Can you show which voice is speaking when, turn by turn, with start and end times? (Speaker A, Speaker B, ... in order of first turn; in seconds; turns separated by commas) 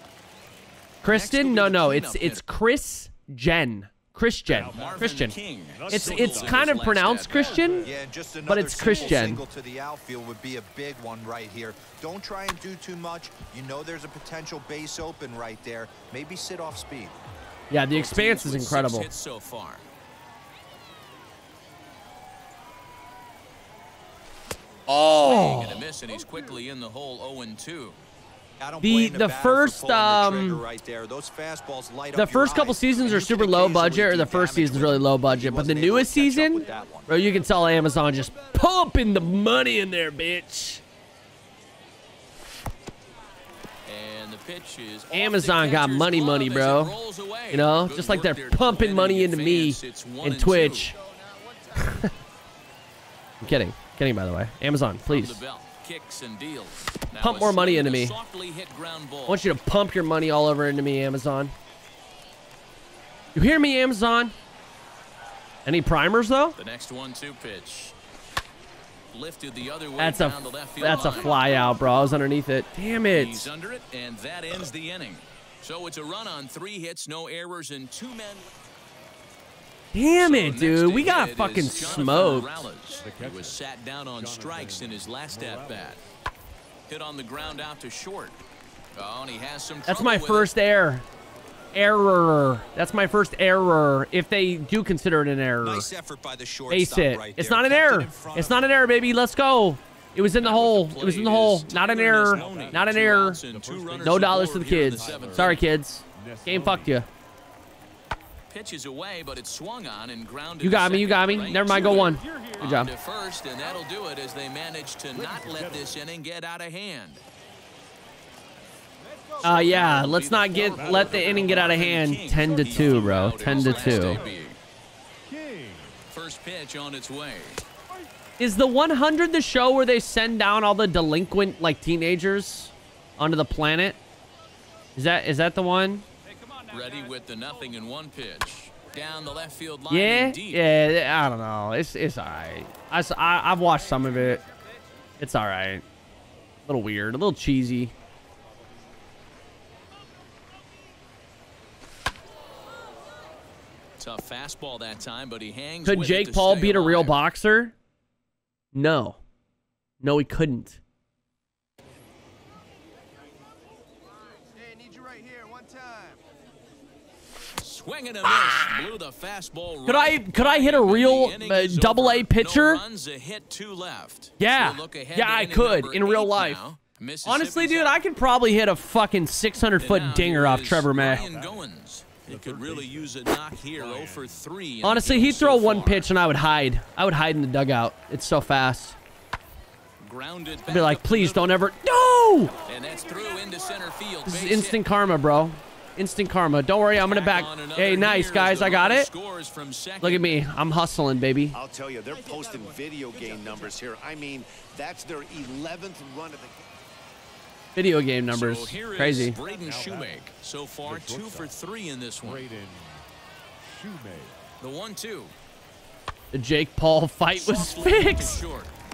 Speaker A: 1.0-5.4, Speaker B: 1.1-2.4, Speaker C: 4.5-8.0, Speaker B: 4.7-7.6, Speaker A: 5.9-7.9, Speaker D: 7.8-17.2, Speaker A: 8.4-9.4, Speaker C: 8.9-9.2, Speaker A: 17.7-19.1, Speaker B: 17.9-19.9, Speaker A: 24.9-25.8, Speaker B: 25.2-28.0, Speaker D: 28.6-37.1, Speaker A: 28.8-30.6, Speaker A: 32.1-40.8, Speaker B: 43.9-50.9, Speaker A: 45.1-47.0, Speaker A: 47.5-51.0, Speaker A: 51.8-52.1, Speaker A: 53.4-55.4, Speaker B: 55.1-59.4, Speaker A: 57.1-58.2, Speaker A: 59.3-61.5, Speaker A: 63.3-64.3, Speaker A: 65.6-66.6, Speaker B: 66.6-67.9, Speaker B: 69.1-71.4, Speaker A: 70.0-73.5, Speaker B: 73.1-78.5, Speaker A: 79.9-82.7, Speaker B: 80.2-86.0, Speaker C: 81.9-86.0, Speaker B: 86.9-88.4, Speaker B: 88.9-90.5, Speaker A: 89.9-91.0, Speaker A: 91.7-95.9, Speaker D: 95.6-98.7, Speaker A: 96.7-103.4, Speaker B: 100.4-105.7, Speaker C: 102.3-107.0, Speaker A: 104.0-107.1, Speaker B: 108.5-117.2, Speaker A: 110.6-112.9, Speaker C: 111.6-112.7, Speaker C: 115.1-116.0, Speaker C: 119.0-124.4, Speaker A: 119.4-124.3, Speaker B: 119.4-124.6, Speaker C: 125.2-126.1, Speaker B: 126.1-127.6, Speaker A: 128.4-134.0, Speaker A: 134.9-136.1, Speaker B: 136.7-140.6, Speaker A: 139.9-144.4, Speaker A: 145.2-145.8, Speaker A: 146.7-147.9, Speaker B: 154.0-157.2, Speaker A: 155.8-157.7, Speaker A: 158.7-159.2, Speaker A: 160.0-160.8, Speaker B: 167.6-178.0, Speaker A: 168.3-168.8, Speaker A: 169.8-172.8, Speaker A: 174.4-176.6, Speaker A: 177.2-181.3, Speaker B: 179.8-186.1, Speaker C: 180.9-181.7, Speaker C: 182.2-184.4, Speaker A: 184.8-189.0, Speaker B: 190.0-191.6, Speaker A: 190.7-192.5, Speaker B: 192.7-194.8, Speaker A: 194.3-199.1, Speaker B: 197.0-200.4, Speaker A: 200.0-201.6, Speaker E: 201.5-206.7, Speaker C: 202.1-203.8, Speaker A: 207.8-209.4, Speaker B: 208.3-212.4, Speaker C: 209.4-210.2, Speaker C: 210.8-211.5, Speaker C: 212.2-213.0, Speaker C: 213.6-214.4, Speaker B: 214.6-215.3, Speaker A: 216.3-218.4, Speaker B: 217.3-218.7